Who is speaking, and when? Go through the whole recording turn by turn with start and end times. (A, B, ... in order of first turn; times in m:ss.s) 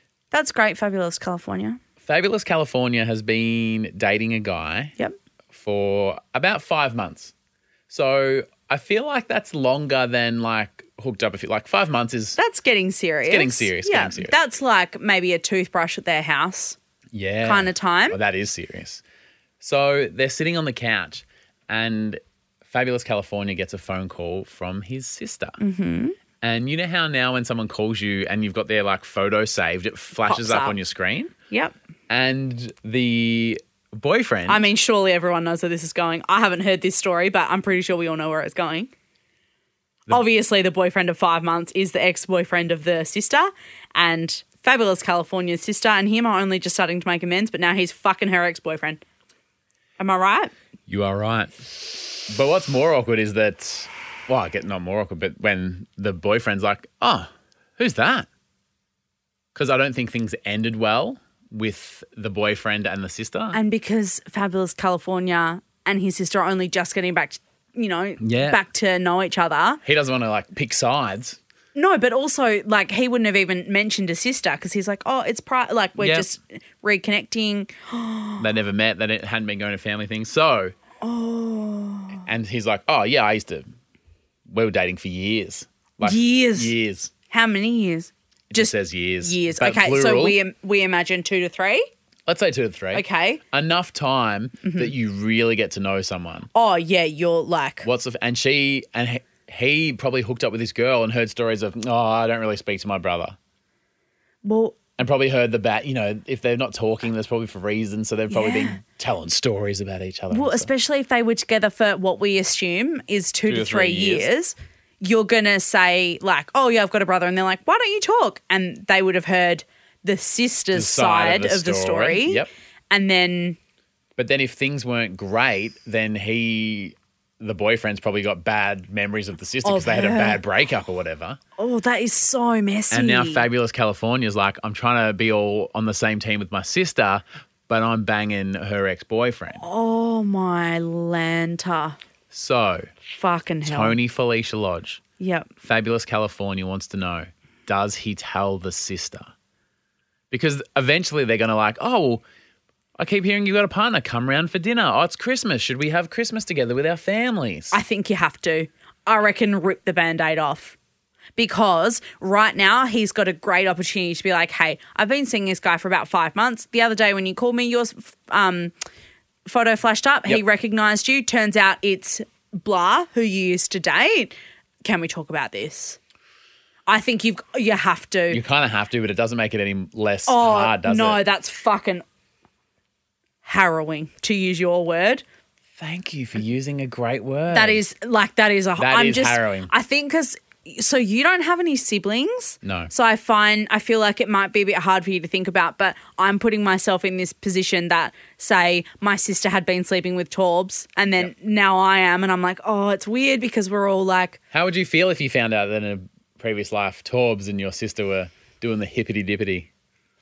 0:00.3-0:01.8 A
0:02.0-0:04.9 B
0:05.5-0:07.3 B
0:07.9-0:12.4 B
0:12.4-0:16.8 A
0:13.3-0:14.3 B
0:17.1-0:19.0 B
0:17.4-0:18.2 A
0:19.6-0:25.6 B
0:25.6-0:26.2 A
0:26.4-0:31.3 B
0:30.2-0:30.8 A
0:32.1-0:34.7 B
0:34.5-0:38.9 A
0:40.1-0:49.0 A
0:50.0-0:50.5 A
0:50.9-0:58.3 B
0:59.5-1:03.6 B
1:03.5-1:09.8 A
1:08.2-1:08.6 B
1:09.8-1:11.4 B
1:11.7-1:18.4 A
1:16.0-1:16.3 B
1:18.4-1:20.7 B
1:21.0-1:22.2 A
1:22.2-1:23.7 B
1:24.5-1:27.1 B
1:26.0-1:26.7 A
1:27.3-1:31.8 A
1:28.5-1:30.4 B
1:32.2-1:36.5 B
1:32.9-1:33.4 A
1:34.6-1:34.9 A
1:36.5-1:37.9 A
1:37.8-1:43.4 B
1:44.4-1:44.8 A
1:45.0-1:50.7 B
1:48.3-1:48.8 A
1:50.3-2:03.6 A
1:53.5-1:54.3 B
2:00.7-2:02.5 B
2:04.2-2:11.4 B
2:09.6-2:10.4 A
2:11.6-2:13.4 A
2:12.9-2:19.6 B
2:19.5-2:22.0 A
2:22.3-2:22.9 B
2:23.0-2:24.0 A
2:23.6-2:25.0 B
2:25.2-2:25.5 A
2:25.6-2:29.3 B
2:30.3-2:32.2 B
2:33.0-2:37.8 B
2:37.7-2:40.8 A
2:41.4-2:48.7 A
2:49.4-2:56.0 A
2:56.9-2:58.4 A
2:58.3-3:01.2 B
3:00.3-3:02.0 A
3:03.4-3:05.2 A
3:05.8-3:07.8 B
3:07.5-3:24.4 A
3:08.8-3:09.7 B
3:12.6-3:12.9 B
3:24.5-3:29.7 B